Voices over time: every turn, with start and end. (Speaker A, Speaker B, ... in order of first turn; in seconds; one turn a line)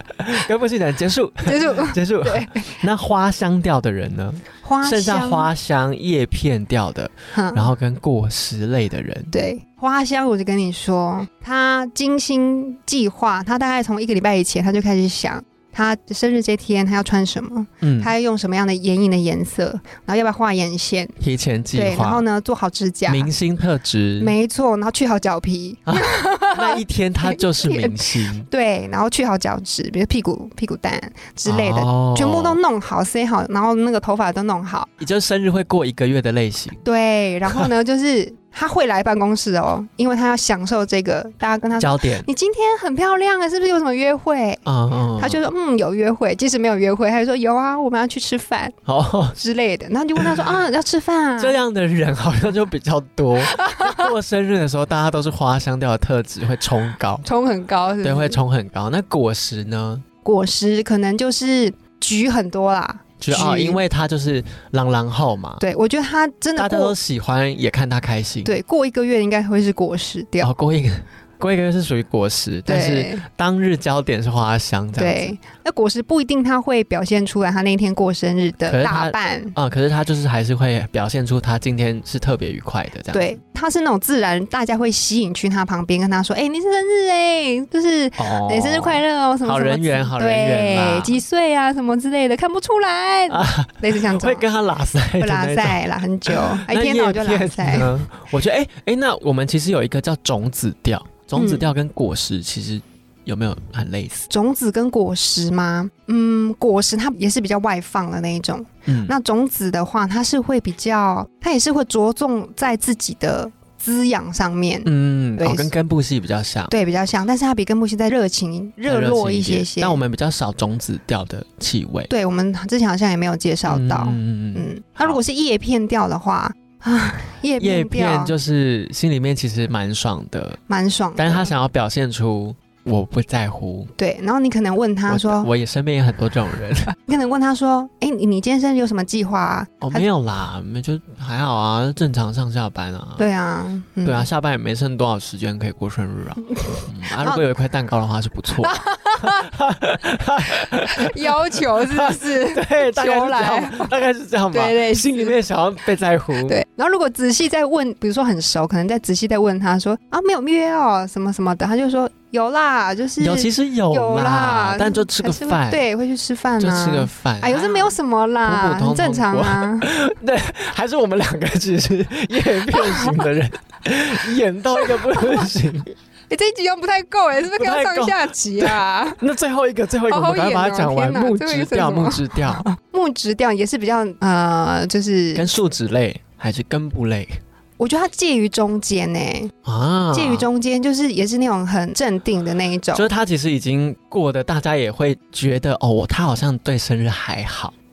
Speaker A: 0.2-9.3
Speaker B: 1.4-2.8
Speaker B: 4.6-5.5
Speaker B: 7.3-7.7
Speaker B: 9.3-21.1
Speaker A: 17.8-18.1
Speaker A: 21.2-22.2
Speaker B: 21.7-23.3
Speaker A: 23.1-24.3
Speaker B: 24.2-34.9
Speaker A: 25.9-28.5
Speaker A: 31.5-32.6
Speaker A: 35.0-36.8
Speaker B: 36.8-44.6
Speaker A: 41.8-42.3
Speaker A: 44.7-45.4
Speaker B: 45.2-48.7
Speaker A: 48.9-49.4
Speaker B: 49.4-51.6
Speaker A: 50.2-50.4
Speaker A: 51.4-57.2
Speaker B: 53.5-54.0
Speaker B: 57.2-58.4
Speaker A: 58.0-60.0
Speaker B: 60.2-63.8
Speaker A: 63.2-65.6
Speaker B: 65.6-67.0
Speaker A: 66.6-68.5
Speaker B: 68.5-70.5
Speaker A: 70.4-75.3
Speaker B: 72.7-73.2
Speaker B: 75.0-79.6
Speaker A: 78.7-83.3
Speaker B: 83.1-94.5
Speaker A: 88.2-91.2
Speaker A: 93.3-104.3
Speaker B: 95.2-97.9
Speaker B: 101.3-101.7
Speaker B: 104.3-115.7
Speaker A: 108.9-109.1
Speaker A: 114.8-116.7
Speaker B: 116.7-120.0
Speaker A: 118.9-122.1
Speaker B: 122.1-128.3
Speaker A: 123.7-125.2
Speaker A: 127.6-130.6
Speaker B: 130.7-131.5
Speaker A: 131.2-133.9
Speaker B: 134.0-135.5
Speaker A: 135.1-136.9
Speaker B: 136.9-140.1
Speaker A: 139.8-143.2
Speaker B: 143.2-144.3
Speaker A: 144.0-156.6
Speaker B: 146.5-147.4
Speaker B: 148.6-149.5
Speaker B: 150.9-153.9
Speaker B: 154.5-155.4
Speaker B: 156.5-169.9
Speaker A: 163.2-165.8
Speaker A: 166.6-175.9
Speaker B: 172.7-173.2
Speaker B: 174.9-175.4
Speaker B: 176.3-179.2
Speaker A: 177.6-182.7
Speaker B: 180.1-185.5
Speaker A: 185.3-187.3
Speaker B: 187.8-189.5
Speaker A: 189.7-190.5
Speaker B: 190.1-193.1
Speaker A: 192.9-197.7